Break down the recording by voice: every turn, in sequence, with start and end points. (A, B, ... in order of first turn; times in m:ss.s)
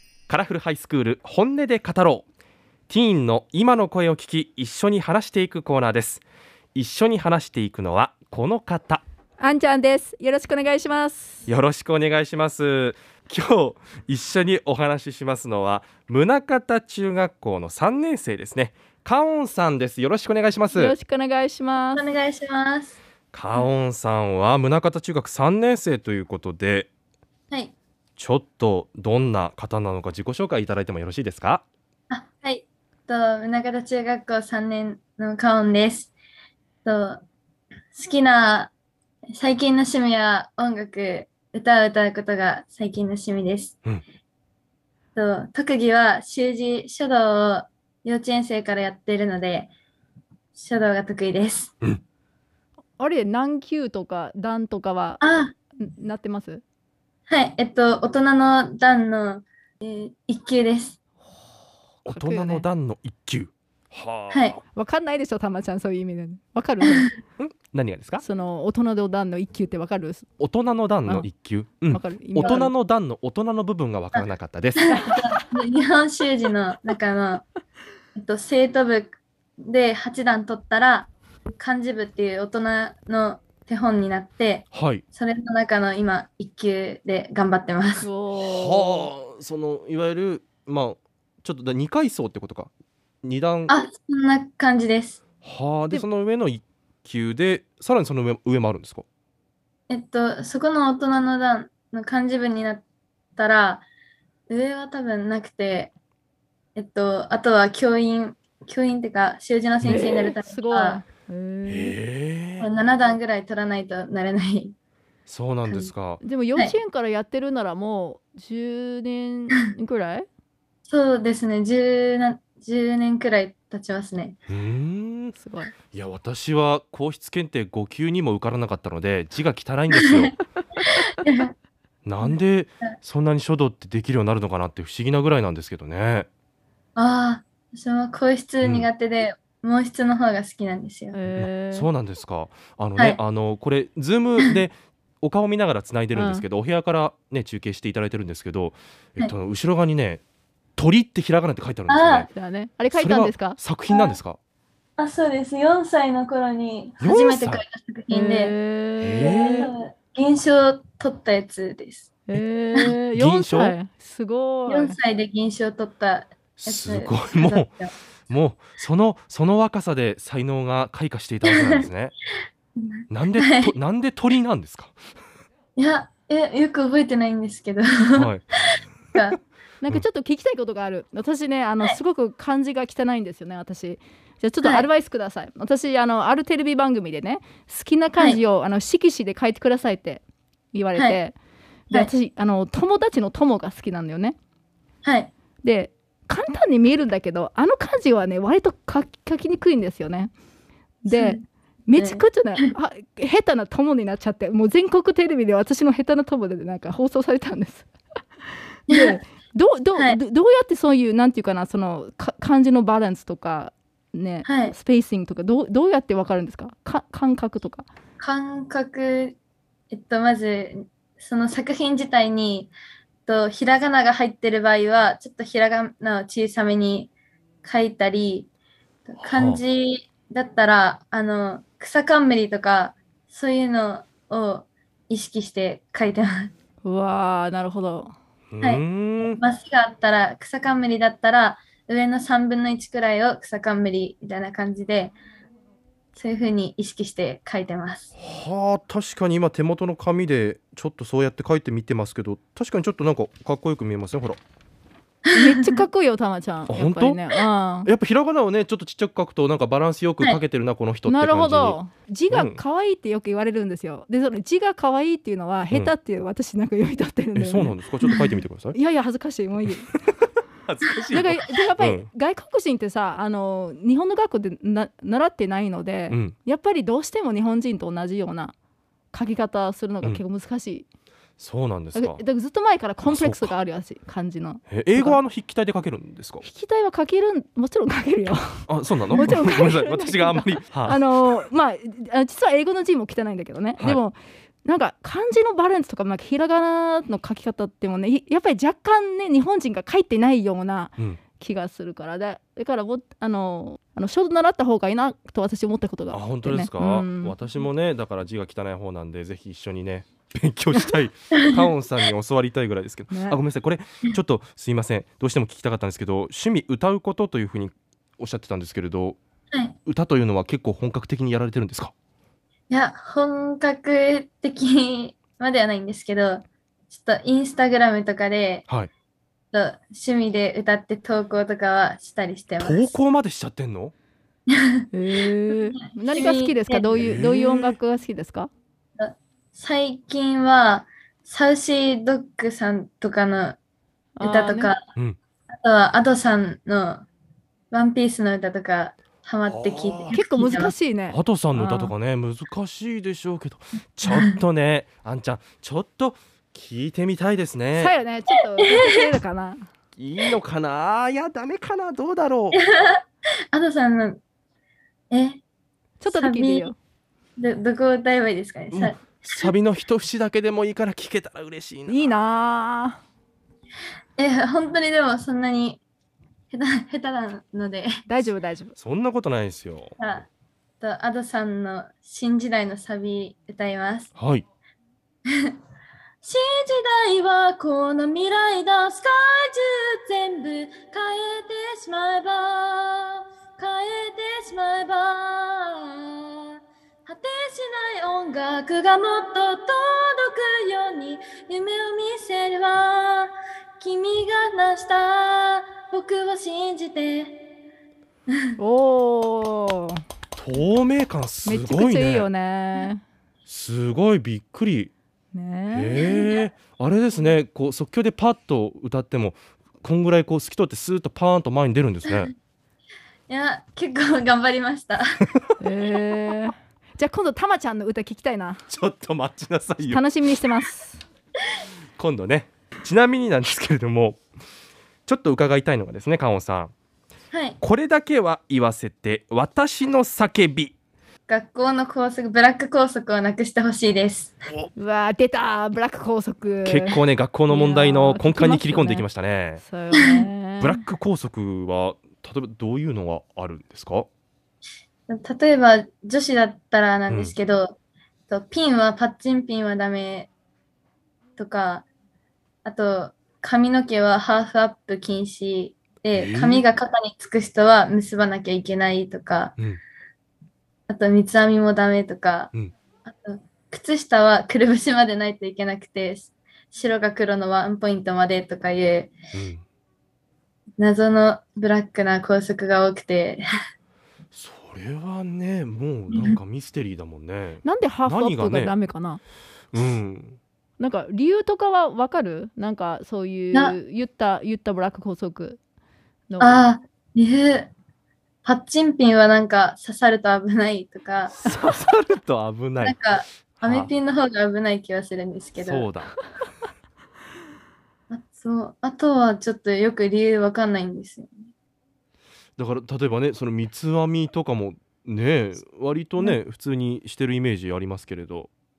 0:00.3-0:02.3 A
0:02.9-0:06.2 A
0:06.8-0:09.0 A
0:09.4-0:11.4 B
0:11.5-0:21.0 A
0:20.7-0:22.0 B
0:21.9-0:23.0 C
0:23.3-0:26.9 A
0:28.2-0:31.6 A
0:32.1-0:36.1 C
0:36.8-0:37.2 C
0:37.9-0:38.7 C
0:39.3-0:43.8 C
0:45.2-0:49.7 C
0:50.5-0:51.7 C
0:53.0-0:55.2 B
0:55.2-0:55.5 C
0:55.8-0:56.6 B
0:57.3-1:01.0 C
1:02.0-1:02.7 B
1:02.0-1:04.6 A
1:04.3-1:04.6 C
1:04.7-1:07.1 B
1:07.4-1:08.2 A
1:08.2-1:10.3 B
1:10.4-1:15.0 A
1:11.9-1:12.7 B
1:14.1-1:17.5 C
1:15.0-1:15.4 B
1:18.2-1:28.1 C
1:24.7-1:25.0 A
1:28.0-1:29.1 B
1:28.4-1:32.7 A
1:33.2-1:33.7 A
1:33.7-1:35.2 C
1:35.4-1:39.0 A
1:39.9-1:42.8 C
1:43.4-1:43.9 C
1:44.5-1:45.9 C
1:46.8-1:51.0 C
1:49.8-1:52.0 B
1:51.7-1:52.7 A
1:52.6-1:54.8 C
1:55.3-1:56.2 A
1:55.7-1:55.9 C
1:56.2-2:00.3 B
2:00.9-2:04.4 C
2:04.5-2:05.4 A
2:05.3-2:05.7 B
2:05.9-2:10.3 A
2:10.0-2:10.3 C
2:10.8-2:11.5 C
2:12.0-2:16.3 A
2:17.0-2:21.2 C
2:21.1-2:21.9 B
2:21.4-2:30.2 A
2:26.1-2:26.5 B
2:30.8-2:32.3 A
2:31.9-2:32.3 C
2:32.3-2:33.6 B
2:32.9-2:34.4 A
2:33.9-2:34.2 C
2:35.0-2:38.5 C
2:37.0-2:37.6 A
2:38.1-2:39.7 B
2:39.0-2:39.7 A
2:39.2-2:42.1 C
2:42.3-2:45.0 B
2:43.1-2:43.8 A
2:44.7-2:47.9 C
2:46.6-2:47.7 A
2:48.3-2:52.2 A
2:51.5-2:51.9 C
2:52.8-2:53.7 C
2:53.1-2:54.9 A
2:55.8-2:59.4 C
2:58.1-2:59.2 A
2:59.8-3:11.4 B
3:11.9-3:14.4 B
3:15.0-3:15.3 C
3:15.6-3:20.3 B
3:21.0-3:27.9 B
3:21.1-3:21.4 C
3:22.0-3:22.7 C
3:28.9-3:29.2 C
3:28.9-3:37.9 B
3:34.4-3:34.8 C
3:38.2-3:39.4 C
3:39.9-3:42.7 C
3:43.3-3:47.1 C
3:47.6-3:48.5 C
3:49.1-3:56.5 C
3:49.2-3:49.6 A
3:56.8-3:58.1 B
3:58.5-3:59.4 A
3:59.4-4:05.1 C
4:06.2-4:08.1 C
4:08.2-4:14.4 A
4:15.3-4:15.8 C
4:15.4-4:17.9 B
4:16.7-4:17.2 A
4:17.8-4:21.8 A
4:21.1-4:27.8 B
4:22.3-4:22.6 A
4:27.4-4:28.8 A
4:28.7-4:29.9 B
4:30.2-4:32.1 A
4:31.1-4:38.5 B
4:36.1-4:36.4 A
4:39.1-4:40.9 B
4:41.4-4:42.2 A
4:41.9-4:45.2 B
4:43.0-4:43.5 A
4:44.7-4:46.4 A
4:46.4-5:07.4 B
4:48.7-4:51.0 A
5:06.1-5:19.2 A
5:11.3-5:11.6 C
5:13.1-5:13.4 B
5:19.9-5:21.9 A
5:22.7-5:28.7 C
5:29.5-5:33.0 C
5:32.6-5:33.9 A
5:34.5-5:34.9 C
5:34.9-5:38.5 B
5:35.5-5:37.1 C
5:36.9-5:37.8 A
5:39.0-5:43.6 C
5:44.2-5:44.7 B
5:44.2-5:44.8 C
5:45.5-5:47.1 C
5:47.7-5:50.7 C
5:49.5-5:50.2 A
5:50.1-5:51.9 B
5:51.1-5:58.0 A
5:54.1-5:54.4 C
5:57.8-5:59.7 B
5:58.6-5:59.1 C
6:00.0-6:02.6 A
6:02.5-6:03.0 C
6:03.5-6:04.2 C
6:05.1-6:05.4 C
6:06.0-6:06.8 B
6:06.1-6:06.7 C
6:07.4-6:09.5 C
6:08.7-6:12.2 A
6:11.9-6:13.0 B
6:14.2-6:15.8 C
6:16.5-6:17.9 C
6:18.1-6:18.8 B
6:18.8-6:20.0 A
6:20.0-6:20.3 C
6:20.8-6:24.1 C
6:24.2-6:24.4 A
6:25.3-6:25.5 C
6:26.2-6:36.3 C
6:37.1-6:47.4 C
6:48.6-6:50.0 B
6:50.4-6:52.3 A
6:51.4-6:53.0 B
6:53.5-6:54.9 A
6:55.3-6:56.0 B
6:55.7-7:02.3 A
6:55.9-6:56.5 C
7:03.3-7:05.0 C
7:05.6-7:08.6 B
7:08.7-7:10.0 A
7:09.8-7:11.0 B
7:12.0-7:14.2 A
7:15.1-7:16.7 A
7:17.3-7:17.6 C
7:17.6-7:20.8 A
7:21.3-7:24.4 C
7:24.8-7:30.8 B
7:26.6-7:29.6 A
7:29.9-7:30.2 C
7:30.6-7:34.1 A
7:35.1-7:37.8 C
7:37.1-7:37.4 A
7:38.3-7:40.3 C
7:41.4-7:41.9 C
7:42.6-7:49.6 C
7:46.1-7:46.6 A
7:50.9-7:52.5 C
7:53.0-7:59.2 C
7:59.3-7:59.6 A
8:00.8-8:03.4 C
8:04.3-8:08.7 A
8:06.1-8:06.4 C
8:07.6-8:09.2 B
8:09.7-8:10.4 A
8:10.8-8:15.6 B
8:16.3-8:16.6 B
8:16.4-8:17.7 C
8:18.4-8:21.4 C
8:21.4-8:23.0 A
8:21.5-8:21.7 B
8:22.8-8:25.9 C
8:23.6-8:23.9 A
8:25.6-8:26.2 A
8:28.1-8:31.4 C
8:32.6-8:38.5 A